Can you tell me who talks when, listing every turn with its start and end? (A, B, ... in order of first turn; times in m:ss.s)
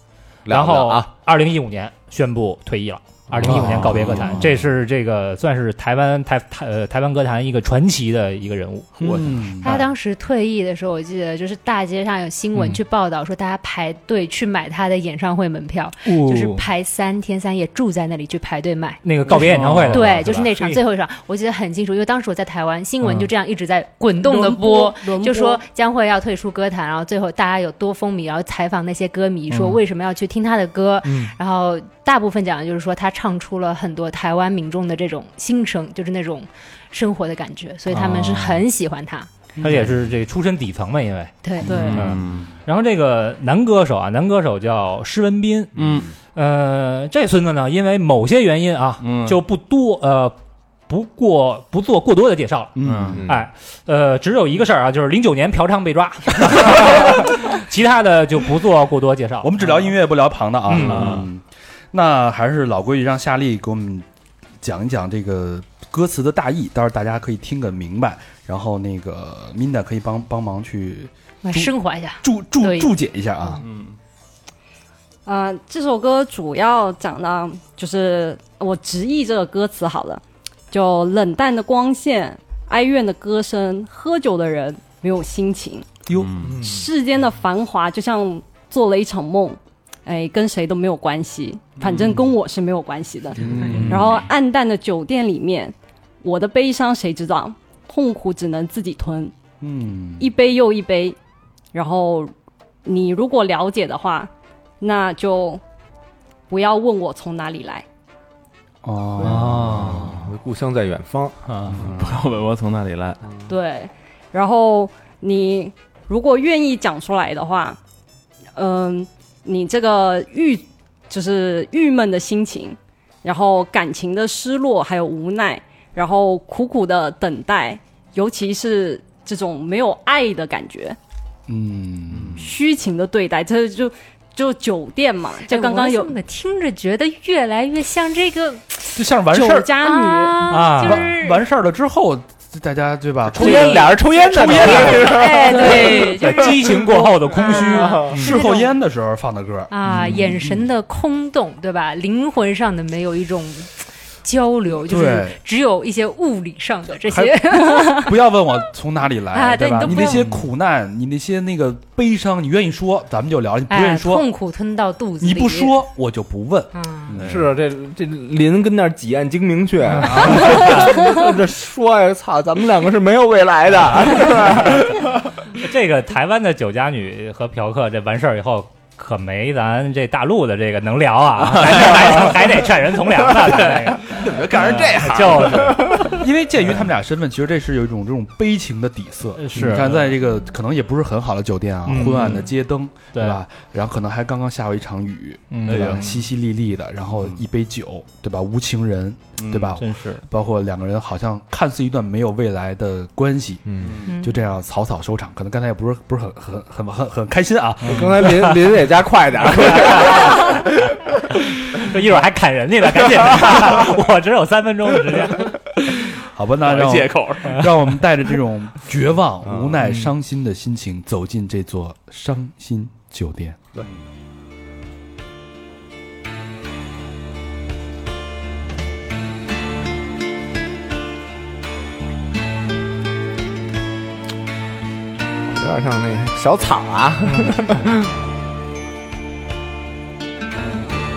0:00.4-0:01.1 A
0:00.5-0:08.9 B
0:03.3-0:04.4 A
0:03.4-0:04.4 C
0:03.5-0:04.2 D
0:09.0-0:09.8 C
0:09.0-0:09.6 D
0:09.6-0:39.3 E
0:12.5-0:12.8 B
0:16.0-0:16.6 B
0:19.0-0:20.8 B
0:19.4-0:20.0 D
0:24.2-0:25.6 F
0:29.5-0:29.8 B
0:38.2-0:38.6 B
0:39.6-0:41.3 B
0:41.4-0:41.9 E
0:41.6-0:42.0 F
0:41.7-0:42.1 C
0:41.7-0:42.5 D
0:41.9-0:45.8 B
0:45.8-0:46.1 D
0:45.8-0:46.1 A
0:46.3-0:50.4 B
0:49.0-0:49.4 D
0:50.9-0:59.5 B
0:52.8-0:53.2 C
0:52.8-0:53.2 D
0:53.1-0:53.5 A
0:59.4-1:04.0 C
1:00.7-1:01.2 B
1:00.7-1:01.2 A
1:00.8-1:01.2 D
1:04.6-1:13.6 C
1:11.4-1:12.9 E
1:13.6-1:13.9 D
1:15.2-1:25.9 F
1:26.1-1:26.4 C
1:26.1-1:26.6 D
1:26.5-1:39.3 F
1:33.4-1:34.1 C
1:33.5-1:34.2 D
1:39.6-1:40.3 C
1:40.2-1:41.2 F
1:41.7-1:42.3 F
1:42.8-1:45.6 F
1:46.5-1:47.8 F
1:48.8-1:50.2 C
1:49.2-1:50.0 B
1:49.6-1:50.0 D
1:49.6-1:52.0 A
1:51.5-1:51.8 B
1:51.7-1:53.2 D
1:53.5-1:57.8 F
1:58.6-2:11.0 F
2:11.5-2:12.4 C
2:12.4-2:16.1 F
2:15.4-2:19.0 E
2:19.0-2:19.7 C
2:19.3-2:20.7 F
2:19.8-2:21.4 E
2:20.5-2:21.1 B
2:20.8-2:25.3 C
2:23.3-2:25.9 A
2:23.5-2:23.9 E
2:24.6-2:28.7 E
2:25.2-2:26.2 F
2:26.0-2:28.3 B
2:28.0-2:30.6 C
2:29.7-2:38.2 E
2:34.8-2:35.4 C
2:37.1-2:44.2 C
2:39.3-2:40.2 E
2:43.7-2:45.8 E
2:45.2-2:47.3 C
2:46.7-2:47.1 E
2:47.1-2:47.5 D
2:47.2-2:55.1 A
2:50.3-2:50.8 D
2:55.6-3:06.1 B
3:01.6-3:02.2 A
3:02.0-3:02.2 D
3:03.6-3:06.2 D
3:06.1-3:28.4 C
3:09.4-3:10.1 B
3:11.9-3:12.4 B
3:12.0-3:12.5 D
3:13.1-3:13.4 B
3:15.5-3:16.2 B
3:15.7-3:16.2 D
3:19.4-3:19.8 D
3:19.8-3:20.2 B
3:23.7-3:24.0 A
3:23.8-3:24.1 D
3:24.1-3:24.4 E
3:27.8-3:28.6 B
3:27.8-3:30.6 A
3:29.6-3:30.6 B
3:31.3-3:35.6 B
3:36.3-3:43.7 C
3:36.6-3:37.7 D
3:55.5-3:57.9 A